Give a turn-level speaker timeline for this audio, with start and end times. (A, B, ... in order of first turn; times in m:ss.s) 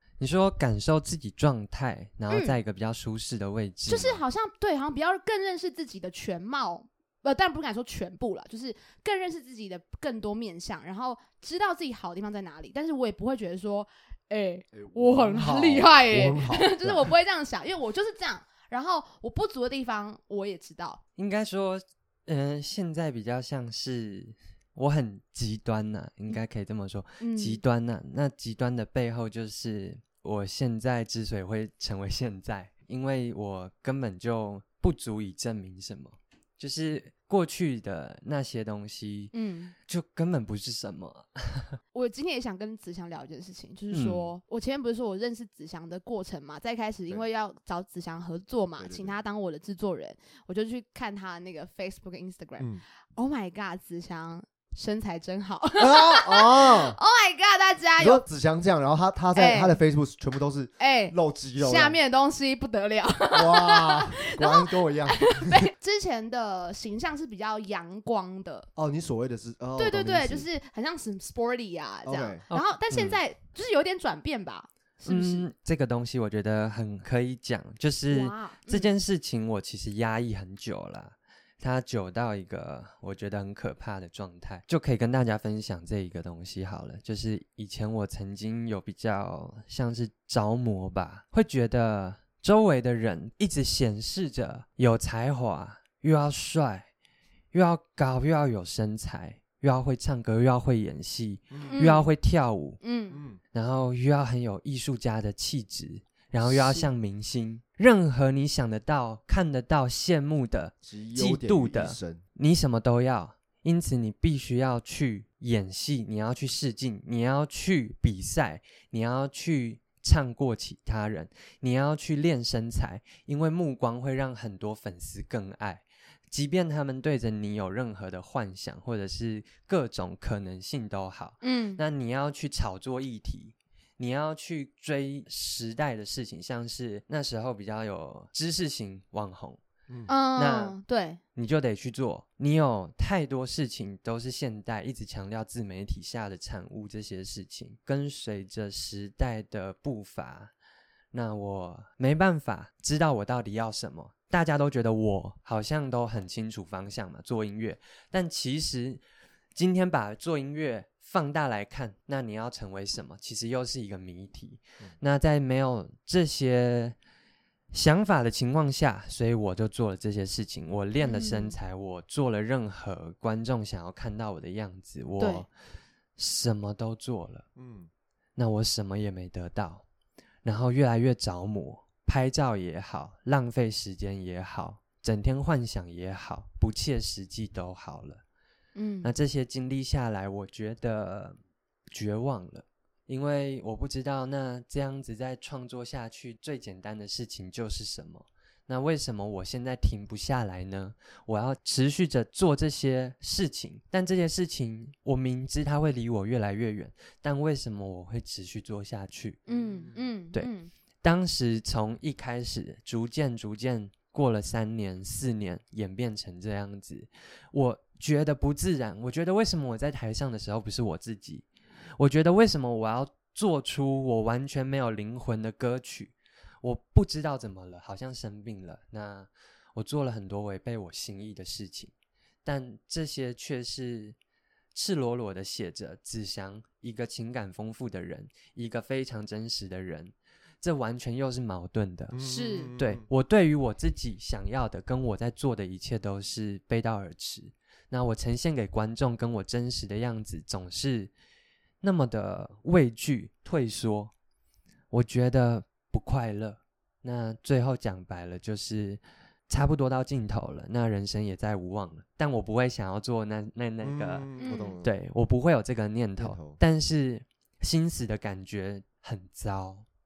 0:00.2-0:04.2 A
0:02.3-0:02.6 B
0:03.9-0:21.0 B
0:14.7-0:17.1 C
0:21.2-0:39.3 A
0:27.2-0:27.6 B
0:39.3-0:39.7 B
0:39.9-0:41.8 A
0:41.9-0:58.2 B
0:43.9-0:44.3 A
0:48.8-0:49.2 C
0:55.8-0:57.0 C
0:58.0-1:02.0 C
0:59.4-0:59.8 B
1:00.8-1:08.7 B
1:03.3-1:05.7 C
1:08.8-1:10.5 C
1:09.8-1:15.5 B
1:12.0-1:12.4 C
1:12.5-1:13.2 A
1:15.1-1:36.9 A
1:18.1-1:18.9 B
1:37.5-1:42.8 A
1:41.5-1:41.8 C
1:41.7-1:42.1 B
1:42.8-1:43.2 B
1:43.1-1:43.4 C
1:43.5-2:19.6 A
1:46.4-1:46.9 B
1:50.8-1:52.2 C
2:11.4-2:11.8 B
2:20.1-2:21.2 B
2:20.4-2:20.8 A
2:21.4-2:30.5 A
2:31.1-2:39.0 A
2:39.6-2:47.0 A
2:47.7-2:55.5 A
2:51.0-2:51.6 B
2:55.2-2:55.5 B
2:56.2-2:57.4 A
2:57.6-2:57.9 C
2:58.4-2:59.8 A
3:00.4-3:08.2 A
3:08.8-3:09.1 B
3:09.0-3:11.4 A
3:11.9-3:29.4 A
3:29.5-3:30.0 C
3:29.5-3:30.7 B
3:30.3-3:41.5 A
3:42.0-3:51.9 A
3:52.4-3:54.2 A
3:54.7-4:02.2 A
4:02.1-4:03.1 C
4:02.2-4:02.7 B
4:02.8-4:11.1 A
4:11.8-4:14.1 A
4:14.9-4:24.3 A
4:23.8-4:24.9 C
4:24.4-4:24.8 B
4:24.8-4:29.8 A
4:26.2-4:26.6 C